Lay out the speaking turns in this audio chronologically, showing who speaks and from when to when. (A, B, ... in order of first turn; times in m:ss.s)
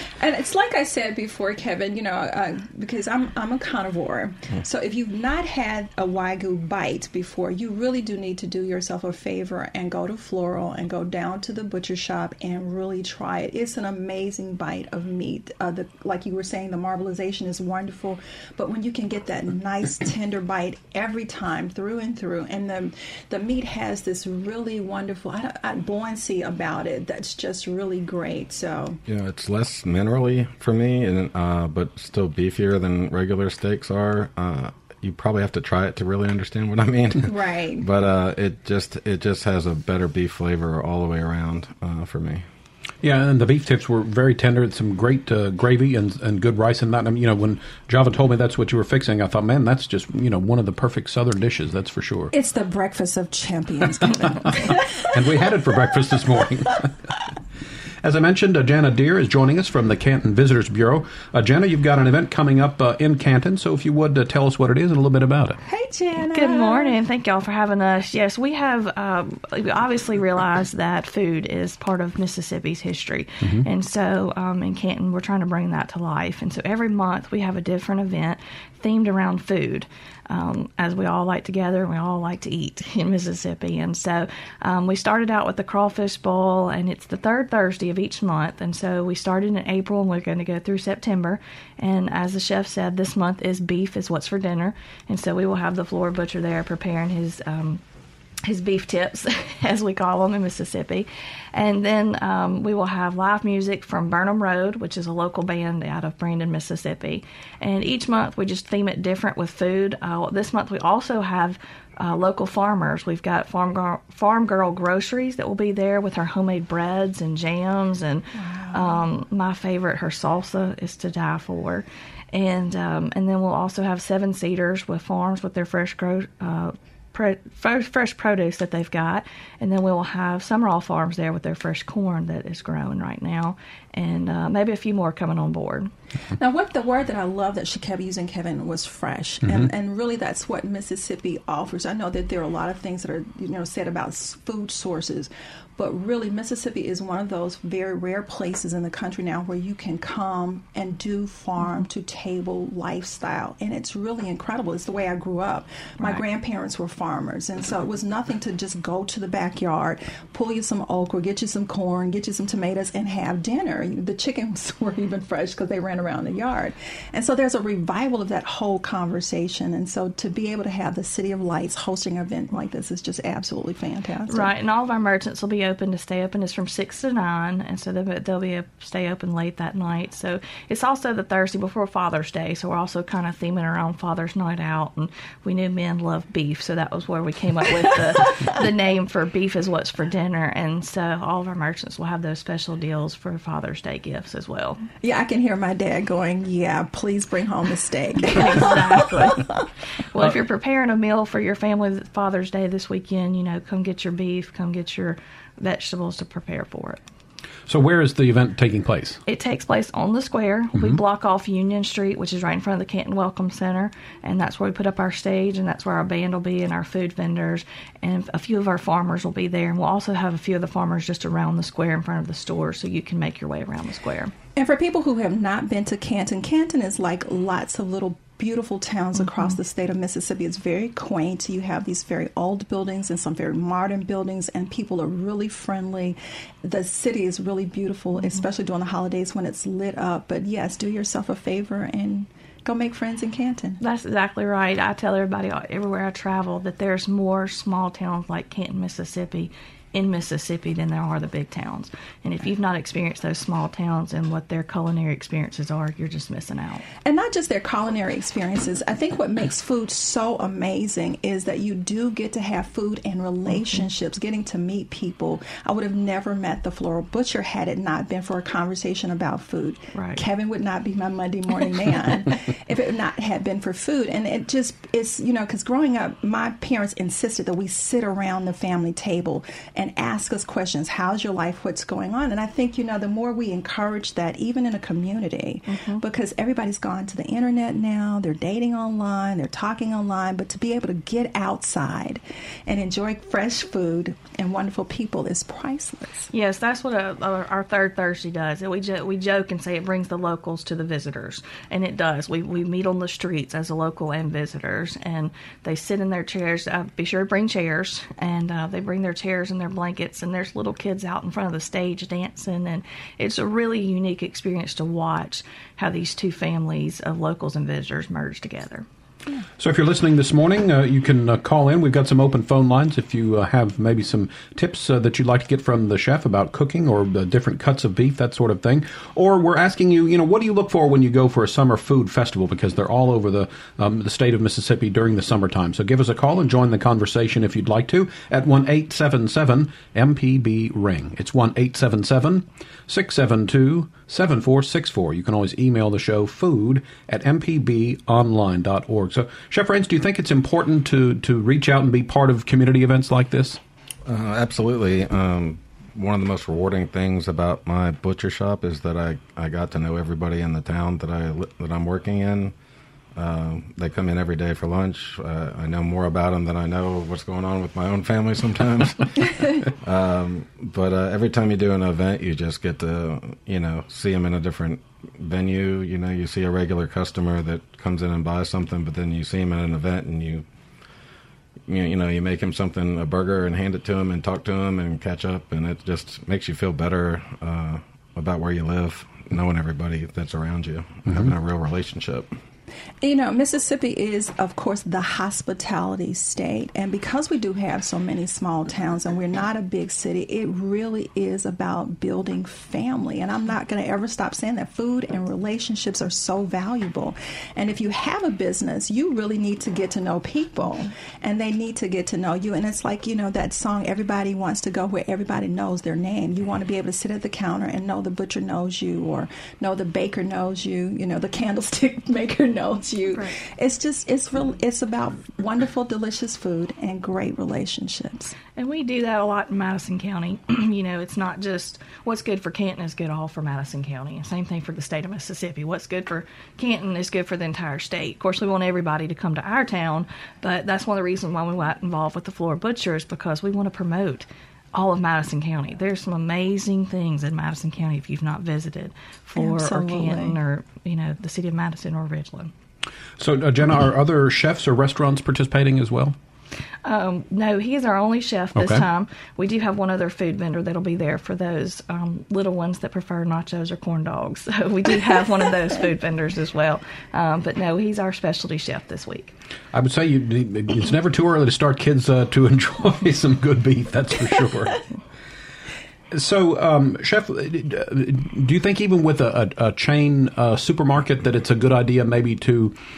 0:00.2-0:29.0 A
0:29.1-0:42.4 B
0:37.2-0:37.9 A
0:43.0-0:52.3 C
0:52.3-0:55.1 A
0:55.0-0:56.9 C
0:58.0-1:05.6 C
1:05.7-1:07.0 A
1:06.3-1:37.8 D
1:38.4-2:15.9 D
1:58.4-1:59.0 A
2:16.4-2:54.5 A
2:19.4-2:19.7 C
2:54.3-3:14.8 D
3:15.0-3:19.6 A
3:18.3-3:19.6 D
3:20.1-3:27.0 D
3:27.7-3:29.2 C
3:29.3-3:44.3 D
3:30.8-3:31.0 C
3:44.6-4:03.8 A
3:49.2-3:49.6 D
3:58.2-3:58.4 D
4:03.8-4:16.8 D
4:17.0-4:56.3 A
4:29.9-4:30.2 D
4:45.7-4:46.0 D
4:56.3-5:18.8 D
5:19.6-5:53.6 C
5:54.1-6:02.5 B
6:03.2-6:20.5 B
6:21.7-6:32.3 B
6:31.1-6:31.3 C
6:33.0-7:08.4 A
7:03.1-7:03.4 D
7:08.6-7:32.5 D
7:29.4-7:30.4 A
7:33.2-7:36.2 C
7:36.8-7:49.3 D
7:38.6-7:38.8 C
7:49.7-7:54.8 C
7:56.1-8:02.8 C